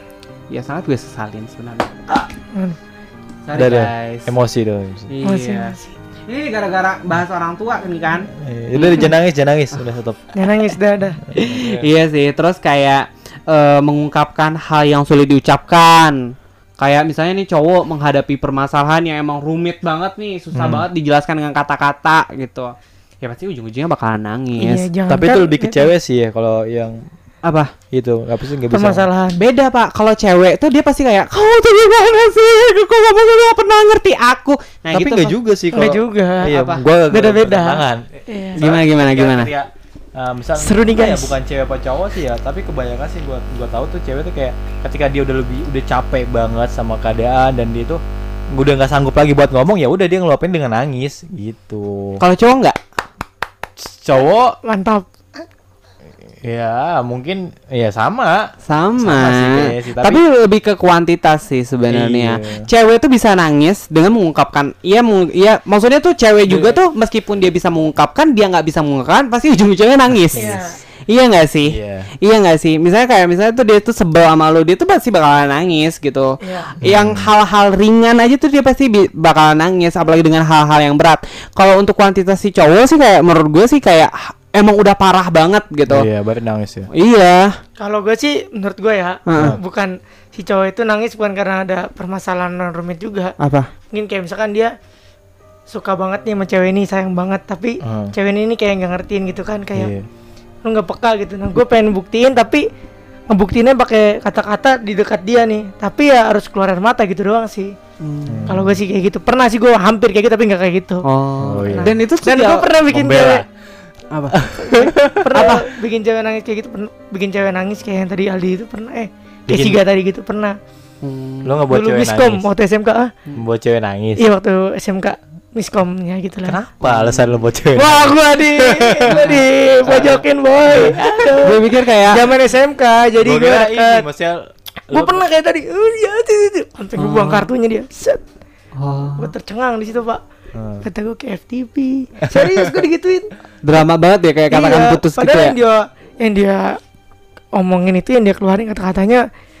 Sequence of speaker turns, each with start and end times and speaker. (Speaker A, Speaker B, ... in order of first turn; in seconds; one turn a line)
Speaker A: 0.5-2.2
Speaker A: 3.5-4.3
Speaker B: 3.5-5.1
Speaker A: 5.1-5.8
Speaker C: 5.2-5.9
Speaker A: 6.3-9.1
Speaker B: 8.3-10.2
Speaker C: 10.3-11.2
Speaker B: 11.3-11.9
Speaker A: 11.3-16.2
Speaker A: 16.8-24.9
Speaker B: 20.5-20.9
Speaker C: 24.6-25.9
Speaker B: 25.1-27.0
Speaker A: 27.4-27.7
Speaker B: 27.9-29.1
Speaker C: 28.7-29.4
Speaker A: 29.4-35.4
Speaker B: 34.9-38.0
Speaker C: 35.7-38.6
Speaker A: 36.5-36.8
Speaker A: 38.5-39.5
Speaker B: 38.6-48.0
Speaker C: 40.6-41.4
Speaker B: 48.5-52.2
Speaker A: 52.2-52.8
Speaker B: 53.8-54.5
Speaker C: 54.6-55.4
Speaker B: 56.4-60.2
Speaker A: 58.6-70.6
Speaker B: 61.9-62.6
Speaker B: 66.5-66.8
Speaker B: 70.3-70.6
Speaker C: 70.3-70.8
Speaker A: 71.1-86.1
Speaker B: 71.7-72.1
Speaker C: 76.4-76.7
Speaker B: 76.8-77.3
Speaker B: 85.9-86.9
Speaker A: 86.9-87.5
Speaker C: 87.8-93.3
Speaker A: 89.3-89.6
Speaker A: 93.4-93.7
Speaker C: 93.9-94.7
Speaker C: 95.7-99.9
Speaker B: 97.8-98.1
Speaker B: 99.7-100.1
Speaker C: 100.6-102.6
Speaker C: 103.3-107.7
Speaker A: 108.0-108.5
Speaker B: 108.3-108.8
Speaker C: 108.5-111.0
Speaker A: 111.0-112.7
Speaker B: 111.4-112.0
Speaker C: 111.7-113.4
Speaker B: 112.9-113.4
Speaker A: 114.1-115.6
Speaker B: 114.3-115.6
Speaker C: 114.6-120.6
Speaker B: 119.5-119.8
Speaker A: 121.0-121.5
Speaker B: 121.4-122.5
Speaker C: 121.7-123.1
Speaker B: 123.4-124.2
Speaker C: 124.2-126.6
Speaker B: 126.4-129.2
Speaker A: 126.8-127.4
Speaker C: 127.7-134.1
Speaker A: 129.1-130.2
Speaker A: 130.7-132.2
Speaker B: 133.2-135.2
Speaker C: 134.9-138.2
Speaker A: 137.0-137.5
Speaker A: 138.8-139.3
Speaker C: 139.2-140.2
Speaker B: 140.5-140.9
Speaker C: 140.8-143.3
Speaker B: 142.3-142.8
Speaker A: 143.6-145.6
Speaker C: 144.5-146.8
Speaker C: 147.5-149.2